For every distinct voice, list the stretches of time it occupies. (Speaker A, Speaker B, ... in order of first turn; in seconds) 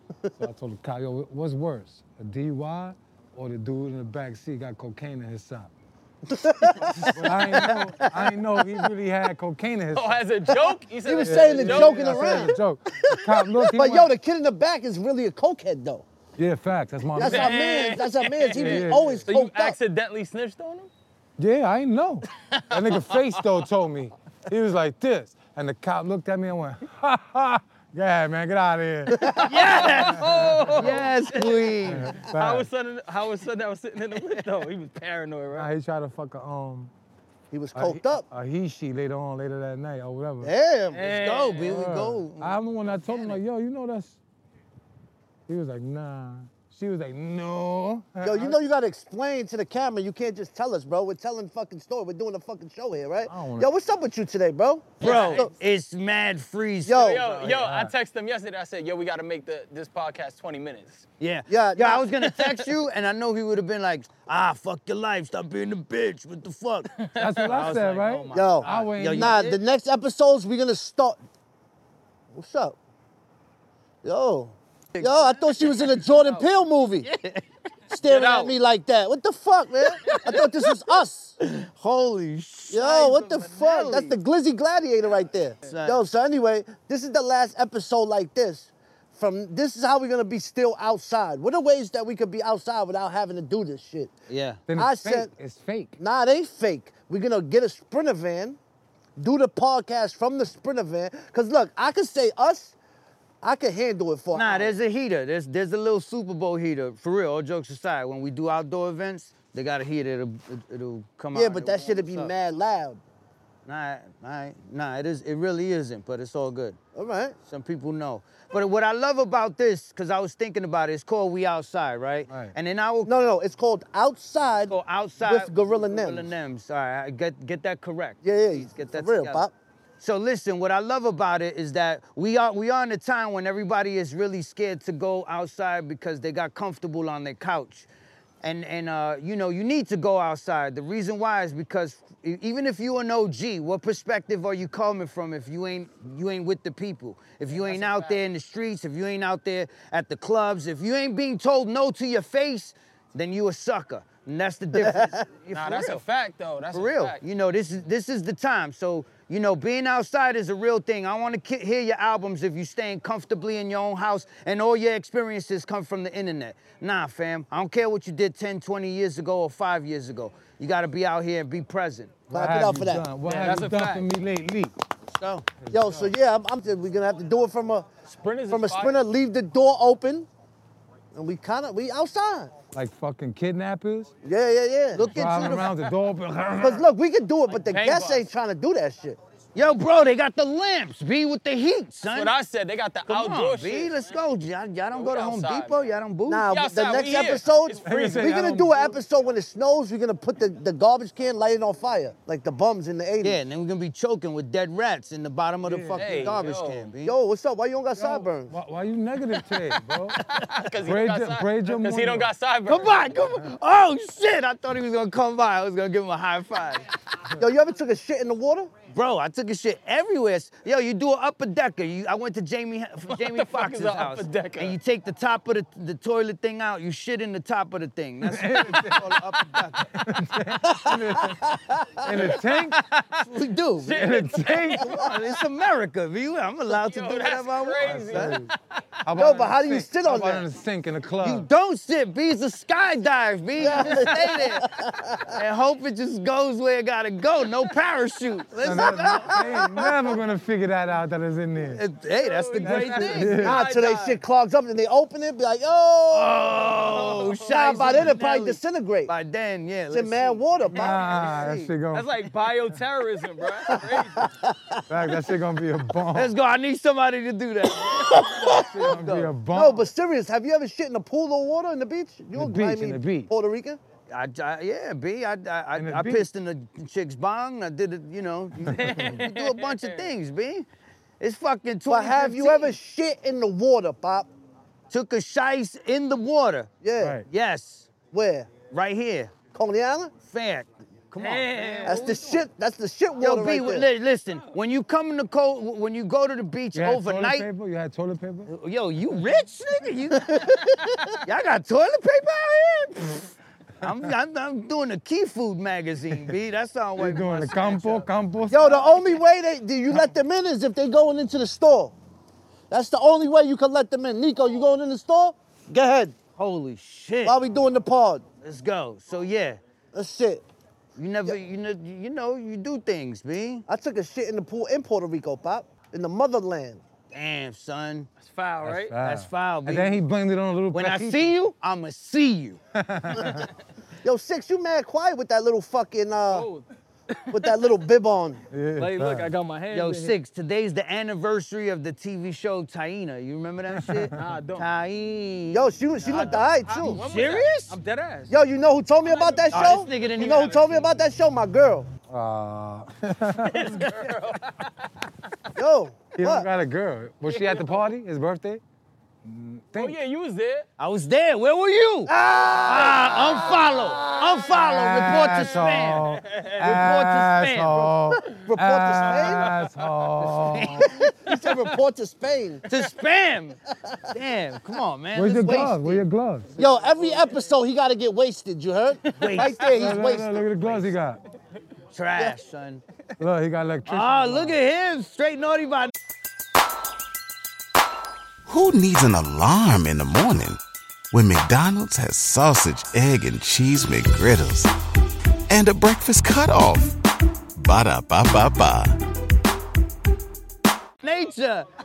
Speaker A: 0.4-5.7, 7.0-10.2, 11.2-14.1, 16.4-17.8, 18.6-19.3, 21.4-31.0, 31.8-32.7, 35.5-36.9, 37.7-40.5, 41.6-44.2, 45.5-48.6, 53.3-53.7, 57.5-57.9, 67.2-69.4, 94.7-96.0, 122.3-122.5, 172.3-174.8, 175.6-176.1, 182.7-184.1, 185.0-186.9, 197.8-199.0, 205.6-206.2, 208.0-210.2, 210.8-212.3, 213.2-213.5, 228.2-232.8, 233.9-235.0, 237.8-238.5, 239.1-241.5, 248.6-251.8, 252.6-253.6, 260.7-262.1, 264.9-266.3, 268.1-269.9, 272.4-273.3, 275.8-276.3, 278.7-279.2, 287.0-287.2, 296.7-298.5, 307.0-308.9, 328.6-331.4, 332.8-333.5, 338.5-339.3, 343.7-344.2, 352.1-353.9, 356.1-358.6, 359.2-360.0, 364.6-370.9, 375.1-376.5, 379.6-381.2, 383.2-384.6
Speaker B: 6.3-8.3, 10.5-12.6, 13.1-16.1, 17.2-19.8, 29.1-29.5, 37.5-38.2, 40.4-41.0, 48.2-55.5, 56.9-57.3, 61.5-62.2, 68.3-71.2, 72.3-72.8, 74.0-77.1, 77.9-81.3, 82.7-94.1, 94.7-95.3, 96.0-98.6, 99.2-102.8, 103.4-104.7, 111.3-113.0, 117.0-117.4, 123.0-126.3, 128.2-129.5, 154.8-155.2, 172.3-173.1, 175.7-177.9, 178.5-180.3, 181.1-182.5, 184.2-185.1, 186.6-189.2, 196.3-203.4, 206.2-206.5, 207.0-208.5, 217.4-218.7, 230.7-232.2, 239.2-240.5, 243.6-245.4, 248.7-249.8, 253.4-256.5, 257.5-259.1, 259.9-261.1, 263.7-264.8, 269.5-273.8, 281.9-284.3, 286.8-287.2, 288.1-288.5, 289.5-290.1, 291.9-293.9, 300.2-301.0, 308.5-311.9, 312.7-316.1, 317.2-318.2, 319.9-320.4, 323.7-326.8, 334.0-336.5, 337.3-338.4, 345.5-347.0, 348.3-351.9, 355.6-356.5, 362.1-364.9, 368.1-369.6, 370.9-372.6, 376.6-380.4
Speaker C: 9.9-12.5, 17.2-20.9, 29.7-35.7, 40.9-41.8, 55.0-55.5, 56.9-61.1, 67.0-67.6, 78.1-78.6, 147.5-148.2, 155.5-157.2, 173.2-174.1, 178.1-179.0, 187.5-188.3, 192.1-194.2, 194.9-195.9, 196.5-198.5, 206.0-206.9, 210.3-213.1, 223.1-224.8, 233.8-234.8, 236.7-238.8, 252.1-254.2, 256.8-257.8, 261.9-264.3, 278.7-280.1, 291.2-292.4, 328.2-328.9, 336.3-337.8, 338.8-340.1, 344.1-344.7, 346.1-348.3, 349.1-349.5, 353.4-355.1, 357.3-357.9, 359.8-360.7, 365.4-366.7, 371.3-371.6, 376.6-377.2
Speaker D: 29.4-32.1, 41.0-43.3, 55.0-57.6, 61.2-69.6, 74.9-76.5, 77.0-77.4, 80.0-80.4, 81.4-84.2, 85.7-86.0, 94.3-94.6, 104.3-112.3, 113.7-116.8, 117.5-123.1, 124.7-129.4, 130.0-137.9, 138.4-156.0, 156.7-172.1, 175.1-175.5, 184.9-185.7, 189.6-192.3, 193.1-196.5, 203.2-207.2, 212.7-216.9, 218.9-230.0, 232.4-234.0, 234.7-238.4, 241.2-244.7, 245.3-249.8, 251.7-253.5, 256.1-261.7, 266.1-269.3, 274.1-280.7, 281.2-282.8, 284.9-286.7, 287.3-287.9, 288.7-289.3, 290.2-292.1, 293.2-297.5, 298.5-300.4, 301.2-308.1, 316.4-317.4, 318.4-319.6, 321.0-323.7, 327.1-328.1, 329.0-330.0, 330.7-332.6, 339.7-347.8, 349.5-350.9, 360.8-362.1, 362.6-366.1, 366.6-368.0, 370.5-371.1, 372.7-373.6, 374.1-376.0, 379.1-379.5, 381.9-382.8, 383.9-385.9, 401.0-401.7
Speaker E: 388.5-390.6, 391.1-394.7, 395.5-397.0, 397.6-398.9